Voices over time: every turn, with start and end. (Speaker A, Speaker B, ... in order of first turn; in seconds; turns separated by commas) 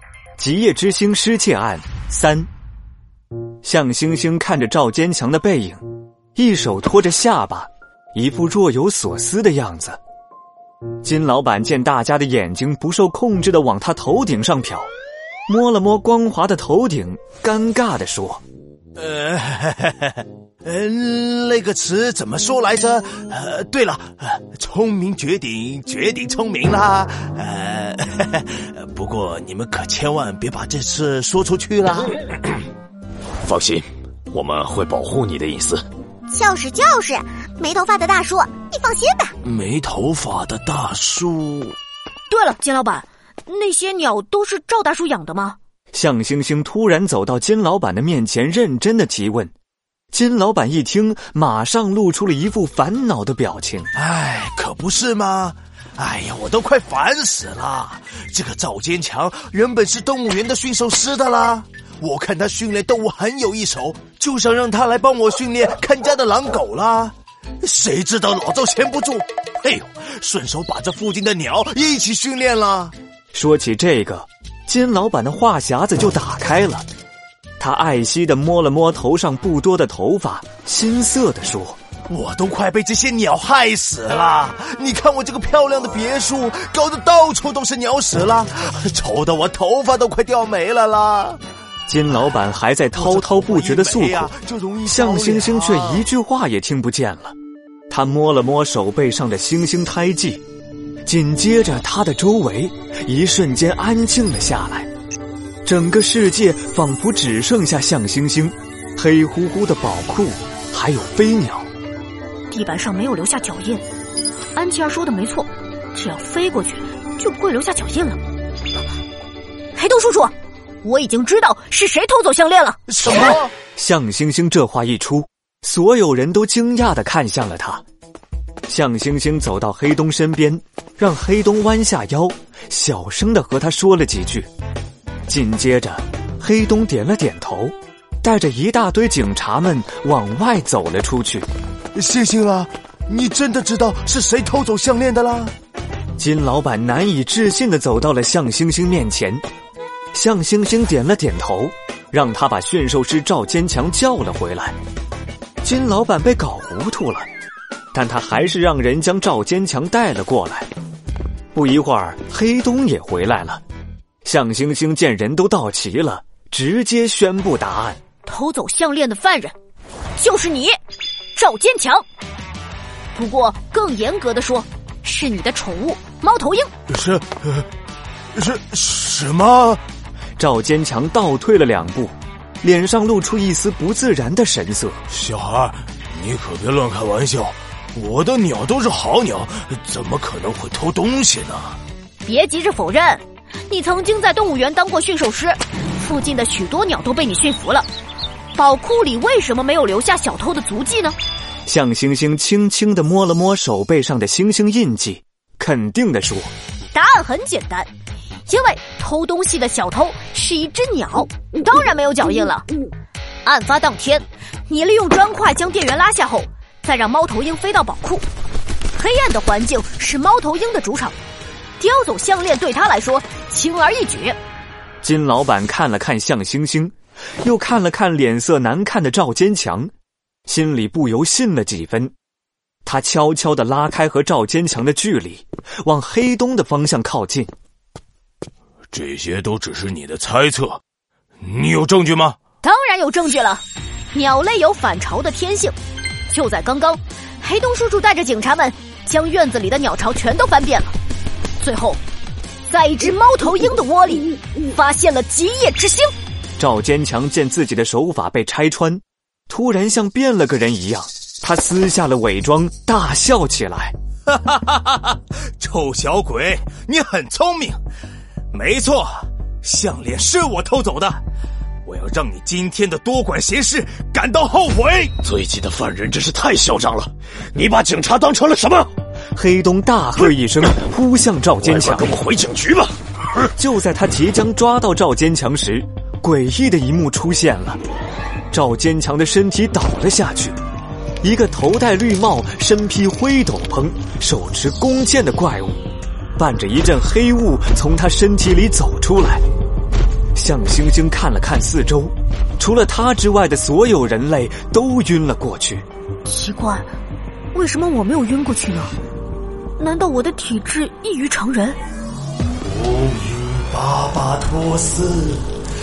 Speaker A: 0.4-2.5, Speaker A: 3.6-5.8, Speaker A: 6.4-10.0, Speaker A: 11.0-14.9, Speaker A: 15.5-18.4, Speaker B: 19.0-32.3, Speaker C: 33.4-35.9, Speaker D: 36.4-39.3, Speaker B: 39.4-41.8, Speaker E: 42.3-45.6, Speaker A: 45.9-49.5, Speaker A: 50.1-53.9, Speaker B: 54.0-72.9, Speaker A: 73.3-76.9, Speaker A: 77.6-81.8, Speaker B: 82.1-91.4, Speaker A: 91.9-94.3, Speaker B: 93.0-96.1, Speaker A: 94.9-97.3, Speaker A: 97.9-100.4, Speaker A: 101.1-104.9, Speaker A: 105.7-111.7, Speaker E: 112.5-113.8, Speaker E: 114.5-118.2, Speaker E: 119.8-122.8, Speaker B: 122.9-123.5, Speaker A: 123.8-127.8, Speaker A: 128.7-134.5, Speaker A: 135.3-141.5, Speaker B: 141.9-145.5, Speaker A: 146.2-149.4, Speaker A: 150.1-154.8, Speaker A: 155.6-157.3, Speaker A: 157.9-160.7, Speaker A: 161.5-163.6, Speaker A: 164.2-168.0, Speaker E: 168.3-169.6, Speaker E: 170.2-170.8, Speaker E: 171.4-172.0, Speaker E: 173.2-176.7, Speaker B: 176.9-177.7, Speaker B: 178.3-179.8, Speaker A: 180.4-185.0, Speaker B: 185.1-191.8, Speaker E: 192.2-197.9, Speaker E: 198.6-201.2, Speaker A: 201.7-206.5, Speaker E: 206.9-207.9, Speaker E: 208.5-212.7, Speaker E: 213.4-218.2, Speaker E: 219.0-221.2, Speaker E: 221.8-224.4, Speaker A: 225.0-229.9, Speaker A: 230.5-232.1, Speaker A: 232.8-237.5, Speaker B: 238.9-240.8, Speaker B: 241.4-242.4, Speaker E: 242.6-245.8, Speaker E: 246.3-250.9, Speaker E: 251.6-252.0, Speaker E: 252.7-256.1, Speaker A: 256.6-263.9, Speaker B: 264.3-267.8, Speaker B: 268.5-271.2, Speaker B: 271.9-275.1, Speaker C: 275.2-278.9, Speaker A: 279.4-282.1, Speaker C: 281.6-282.9, Speaker A: 283.5-287.8, Speaker A: 288.5-290.6, Speaker A: 291.2-295.8, Speaker A: 296.4-299.4, Speaker A: 300.4-305.9, Speaker E: 306.3-306.9, Speaker E: 307.5-309.0, Speaker E: 309.8-311.8, Speaker B: 312.6-315.5